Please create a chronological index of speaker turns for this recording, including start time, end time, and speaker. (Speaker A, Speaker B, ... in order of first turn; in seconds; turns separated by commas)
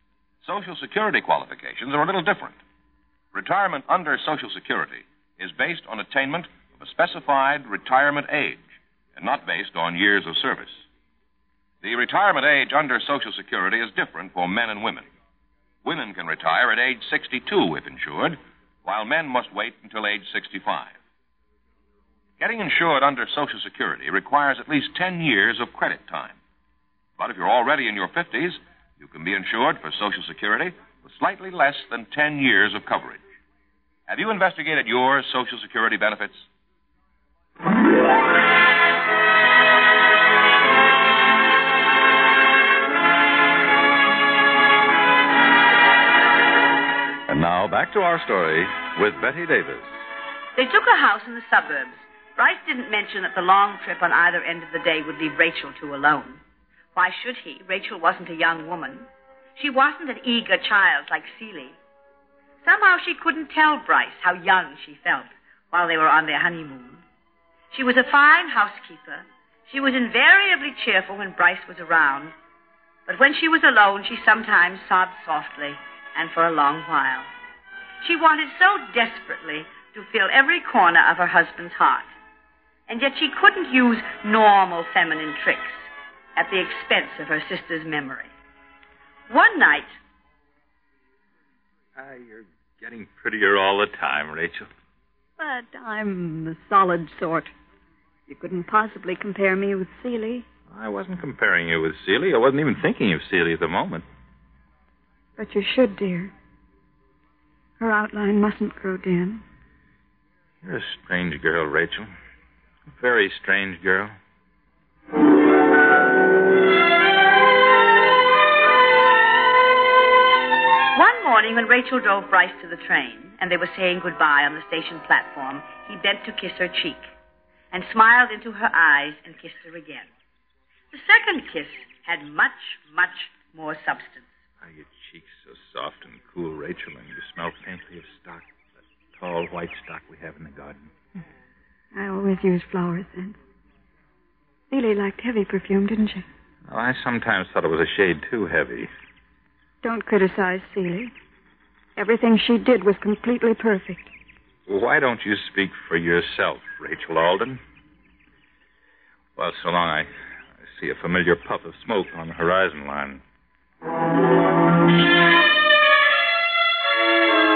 Speaker A: 0.4-2.6, Speaker A: 3.3-10.8, Speaker A: 11.8-15.1, Speaker A: 15.8-21.0, Speaker A: 22.4-26.4, Speaker A: 27.2-33.2, Speaker A: 34.1-36.5, Speaker B: 47.3-49.9, Speaker C: 50.5-56.4, Speaker C: 56.9-61.8, Speaker C: 62.6-67.0, Speaker C: 67.7-72.3, Speaker C: 73.1-77.3, Speaker C: 78.0-82.1, Speaker C: 82.9-88.3, Speaker C: 89.3-90.0, Speaker D: 92.0-94.7, Speaker E: 95.4-97.5, Speaker E: 98.3-100.5, Speaker D: 100.7-104.0, Speaker E: 105.4-106.3, Speaker E: 107.8-109.4, Speaker D: 110.6-112.1, Speaker D: 112.9-114.1, Speaker C: 120.9-127.1, Speaker C: 127.7-130.1, Speaker C: 130.9-134.3, Speaker D: 134.6-140.9, Speaker E: 141.9-143.4, Speaker E: 144.7-146.2, Speaker D: 146.7-148.9, Speaker E: 149.8-151.1, Speaker E: 151.9-154.1, Speaker D: 154.7-157.6, Speaker D: 159.3-163.2